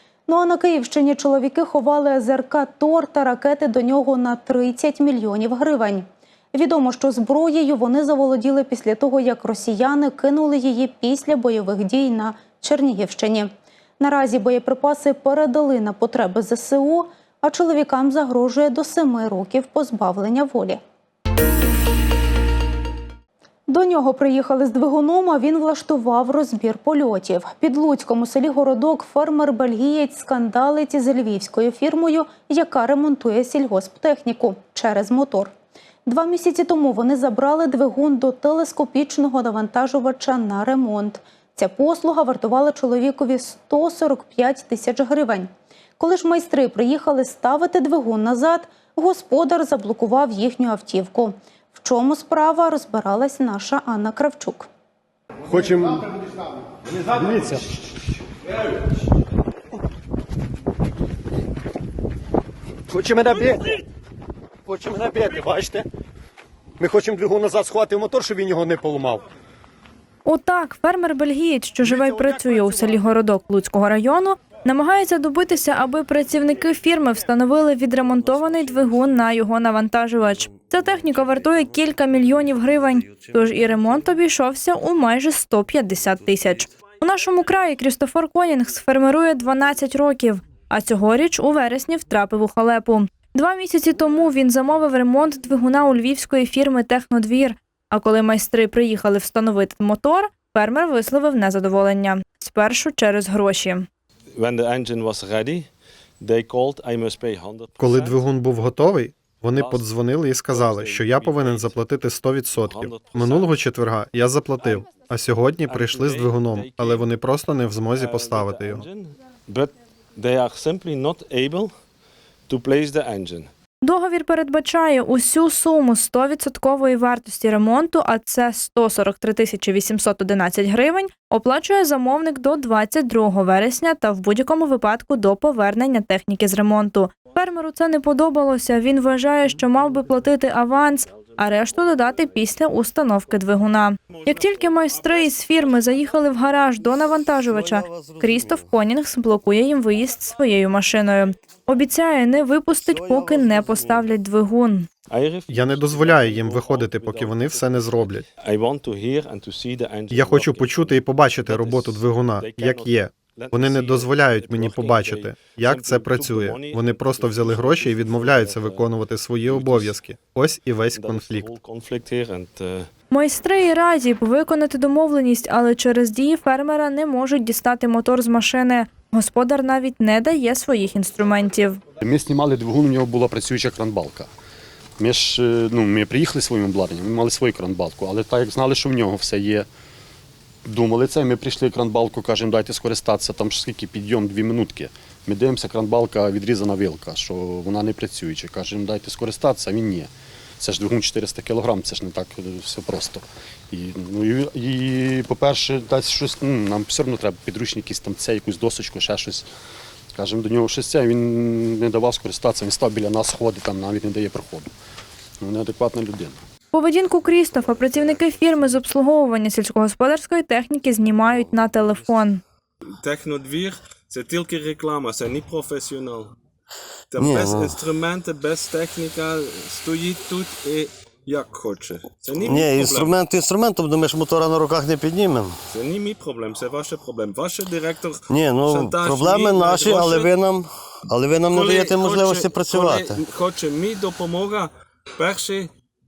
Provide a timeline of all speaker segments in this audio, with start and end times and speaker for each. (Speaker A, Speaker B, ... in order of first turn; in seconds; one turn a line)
Speaker A: 0.3-20.8
Speaker A: 23.7-35.5
Speaker A: 36.0-54.7
Speaker B: 55.5-56.0
Speaker B: 57.0-57.9
Speaker B: 62.9-63.8
Speaker B: 64.7-65.8
Speaker B: 66.8-69.2
Speaker C: 70.2-103.9
Speaker B: 72.2-72.6
Speaker D: 104.3-105.7
Speaker D: 106.2-108.3
Speaker E: 107.8-118.8
Speaker D: 109.5-109.9
Speaker D: 110.4-113.6
Speaker D: 114.6-115.0
Speaker D: 115.6-117.1
Speaker D: 117.9-121.7
Speaker D: 122.5-123.5
Speaker C: 123.8-154.9
Speaker D: 141.1-142.6
Speaker D: 144.1-146.2
Speaker F: 147.3-148.7
Speaker F: 152.8-154.1
Speaker D: 155.1-168.9
Speaker E: 155.5-158.2
Speaker E: 160.1-171.5
Speaker D: 169.4-170.0
Speaker D: 170.9-172.9
Speaker C: 173.1-181.8
Speaker G: 182.0-184.3
Speaker G: 185.0-189.7
Speaker G: 190.7-209.5
Speaker G: 210.1-214.7
Speaker G: 215.4-216.4
Speaker C: 216.7-222.4
Speaker D: 223.0-226.3
Speaker D: 227.1-233.2
Speaker F: 227.2-227.8
Speaker F: 232.4-235.5
Speaker D: 235.7-240.3
Speaker F: 238.3-243.2
Speaker D: 241.5-245.7